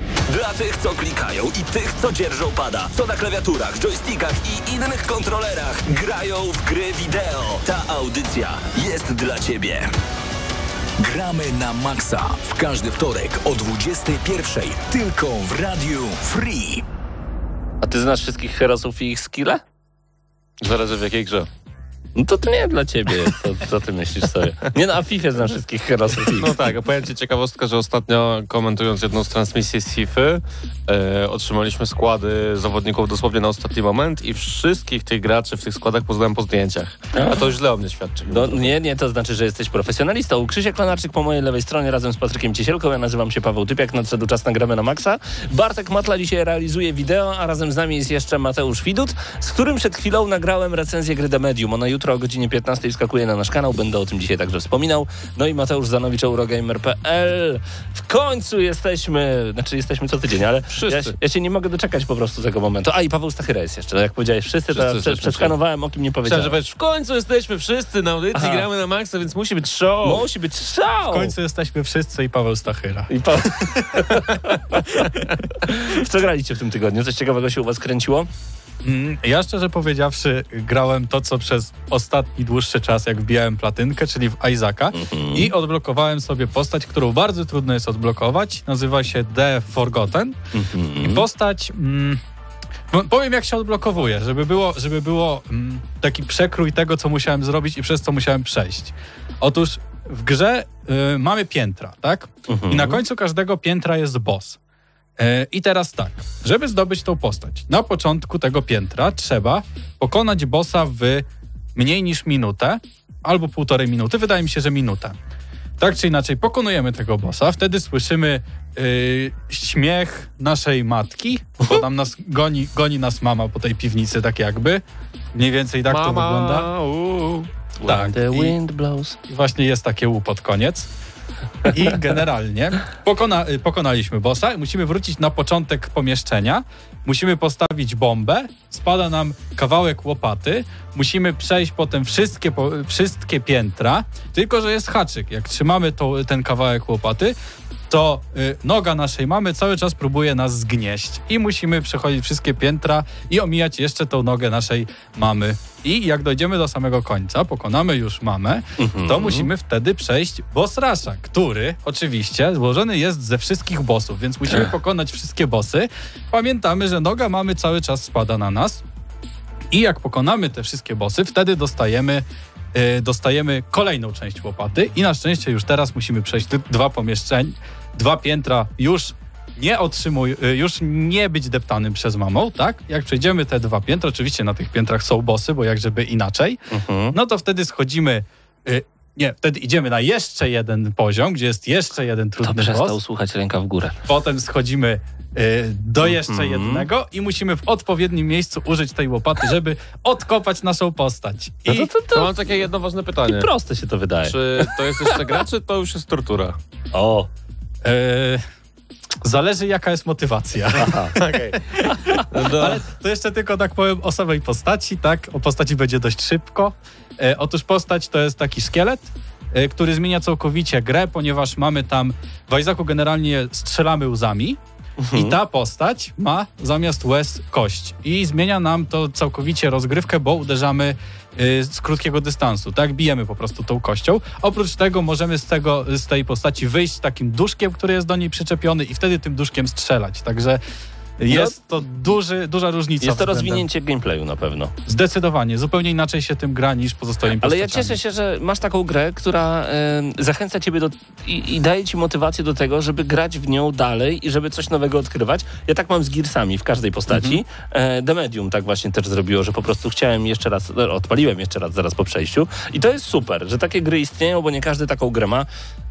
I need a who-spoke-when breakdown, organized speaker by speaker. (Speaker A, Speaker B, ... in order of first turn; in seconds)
Speaker A: 0.3-9.9
Speaker B: 11.0-16.8
Speaker C: 17.8-19.6, 22.1-26.5, 37.1-37.4, 38.3-66.6, 68.3-68.7, 70.0-71.3, 73.1-75.1, 75.6-78.3, 84.9-85.5, 90.5-91.2, 102.5-103.0, 127.8-129.2, 158.8-159.5, 186.7-187.2, 192.4-194.0, 196.0-196.9, 201.7-202.5, 203.3-205.2, 206.9-207.3, 210.8-211.1, 225.0-225.3, 241.3-241.6, 243.0-244.7, 247.4-265.5
Speaker D: 20.6-21.5, 26.2-38.7, 60.7-61.1, 64.7-65.5, 66.2-70.2, 125.9-127.5, 202.1-203.5, 204.2-206.6, 211.1-212.8
Speaker E: 71.1-73.1, 78.8-90.4, 91.0-92.2, 92.9-104.6, 105.2-115.2, 115.8-124.8, 125.3-126.7, 127.8-128.6, 129.3-130.9, 131.6-147.3, 147.9-168.8, 169.7-186.6, 187.1-193.0, 194.1-201.9, 207.8-208.4, 209.2-211.9, 212.4-224.6, 225.1-240.6, 241.2-243.7, 244.8-248.0